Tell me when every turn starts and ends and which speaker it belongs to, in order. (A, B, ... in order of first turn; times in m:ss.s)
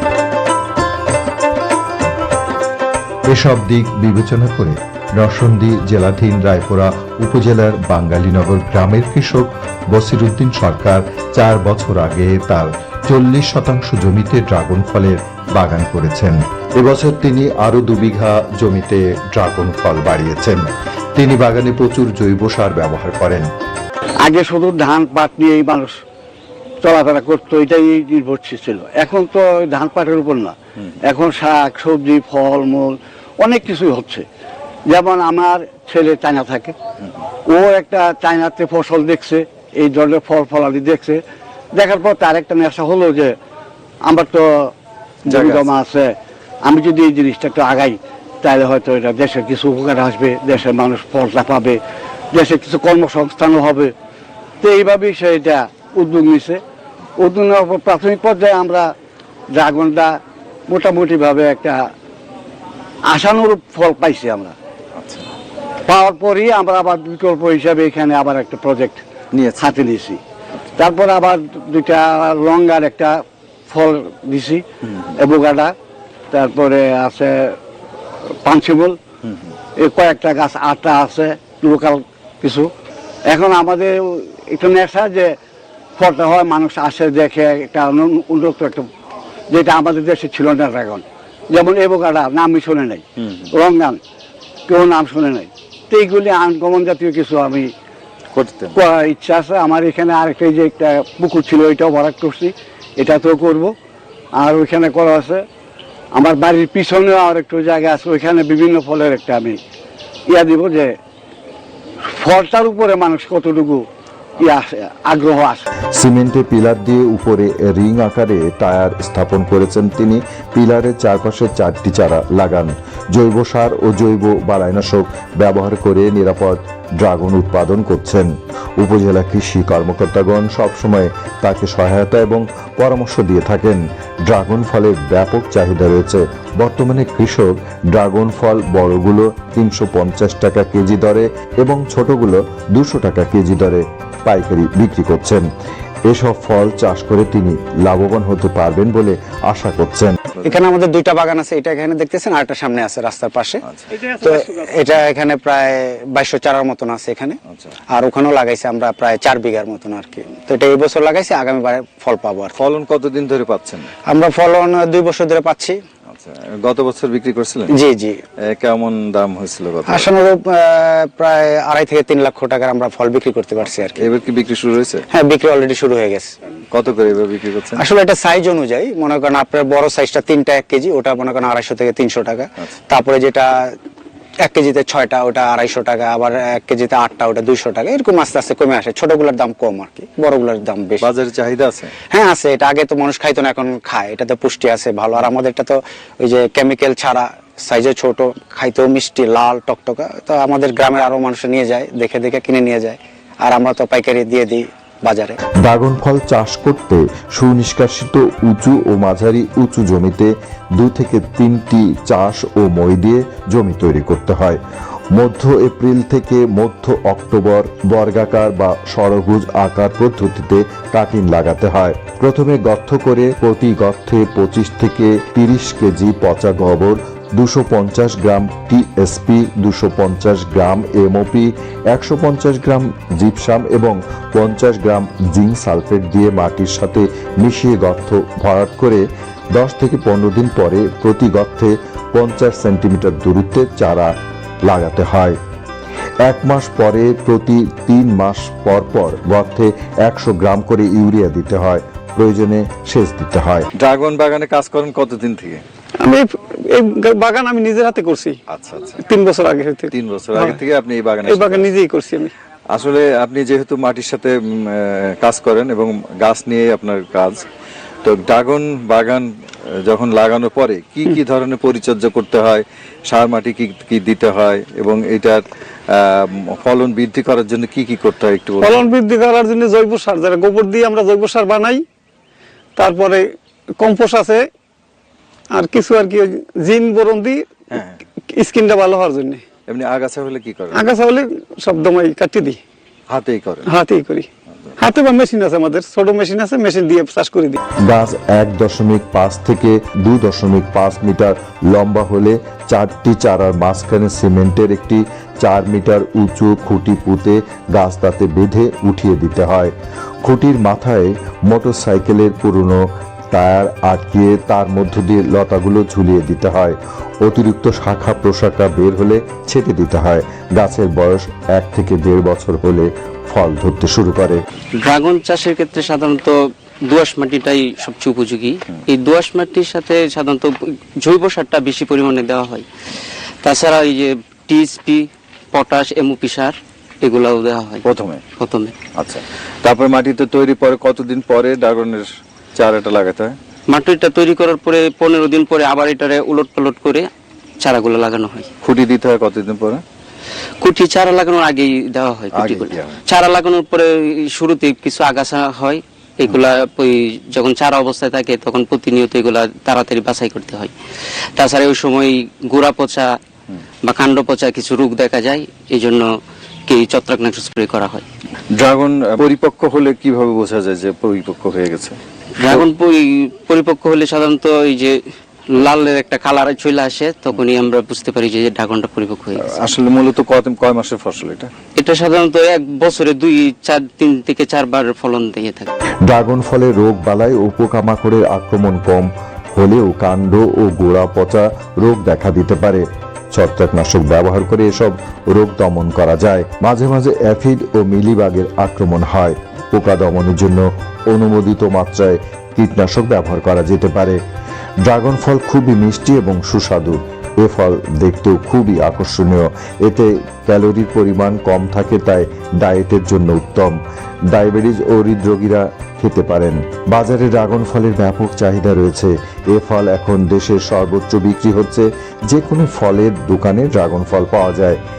0:03.3-0:23.5 A
0:24.2-0:25.9 B
0:26.8-0:30.5 B
0:31.0-0:34.2 B
0:34.9-0:36.8 B
0:37.5-0:41.2 B
0:41.7-0:43.4 B
0:44.0-0:44.7 B
0:45.3-0:46.1 B
0:45.3-0:45.6 C
0:46.6-0:51.8 B
0:52.3-0:53.9 B
0:54.6-0:56.6 B
0:57.2-0:58.9 B
0:59.5-1:00.2 B
1:00.7-1:01.8 B
1:03.1-1:04.5 B
1:05.0-1:05.3 C
1:05.9-1:09.0 B
1:09.3-1:09.7 C
1:09.6-1:10.2 B
1:10.8-1:14.6 B
1:15.2-1:15.7 B
1:16.3-1:17.6 B
1:18.4-1:19.0 B
1:19.8-1:22.7 B
1:23.3-1:25.4 B
1:26.0-1:28.8 B
1:29.5-1:34.0 B
1:34.7-1:37.7 B
1:38.3-1:38.8 C
1:38.7-1:43.7 B
1:44.4-1:45.4 B
1:46.2-1:49.6 B
1:50.3-1:50.9 B
1:52.1-1:53.8 B
1:54.4-1:55.7 B
1:56.0-2:25.5 A
2:26.1-2:30.4 A
2:30.4-2:37.4 D
2:37.9-2:42.5 D
2:42.6-2:43.9 C
2:44.1-2:45.8 D
2:46.1-2:47.7 C
2:47.7-2:48.2 D
2:48.4-2:50.1 C
2:49.9-2:54.1 D
2:54.0-2:55.0 C
2:55.1-2:56.3 D
2:56.7-2:57.8 C
2:57.8-3:03.8 D
3:04.4-3:11.1 D
3:11.0-3:11.9 C
3:12.0-3:25.4 D
3:25.6-3:34.6 A
3:35.1-4:04.1 A
4:04.7-4:05.4 A
4:06.2-4:13.7 A
4:13.8-4:15.6 C
4:16.0-4:18.4 E
4:18.5-4:19.0 C
4:19.0-4:20.6 E
4:19.9-4:21.7 C
4:21.3-4:22.3 E
4:22.7-4:27.5 C
4:28.0-4:38.8 C
4:38.6-4:41.8 E
4:42.8-4:44.5 E
4:45.5-4:47.5 E
4:47.7-4:48.0 C
4:48.2-4:49.4 E
4:49.7-4:50.9 C
4:50.8-4:52.6 E
4:53.1-4:53.8 C
4:53.7-4:57.6 E
4:57.8-5:09.7 A
5:10.2-5:24.4 A
5:24.8-5:32.7 F
5:33.4-5:37.8 F
5:37.8-5:38.2 C
5:38.4-5:38.8 F
5:39.0-5:43.4 C
5:43.7-5:47.1 F
5:47.6-5:48.5 F
5:48.6-5:49.8 C
5:50.6-6:00.7 F
5:52.3-5:52.9 C
6:01.4-6:03.2 F
6:03.8-6:06.1 F
6:06.7-6:08.0 F
6:08.5-6:12.6 C
6:12.4-6:15.0 F
6:15.5-6:19.6 F
6:19.4-6:21.5 C
6:21.8-6:25.7 F
6:26.1-6:44.2 A
6:44.8-6:53.8 A
6:54.3-7:04.8 A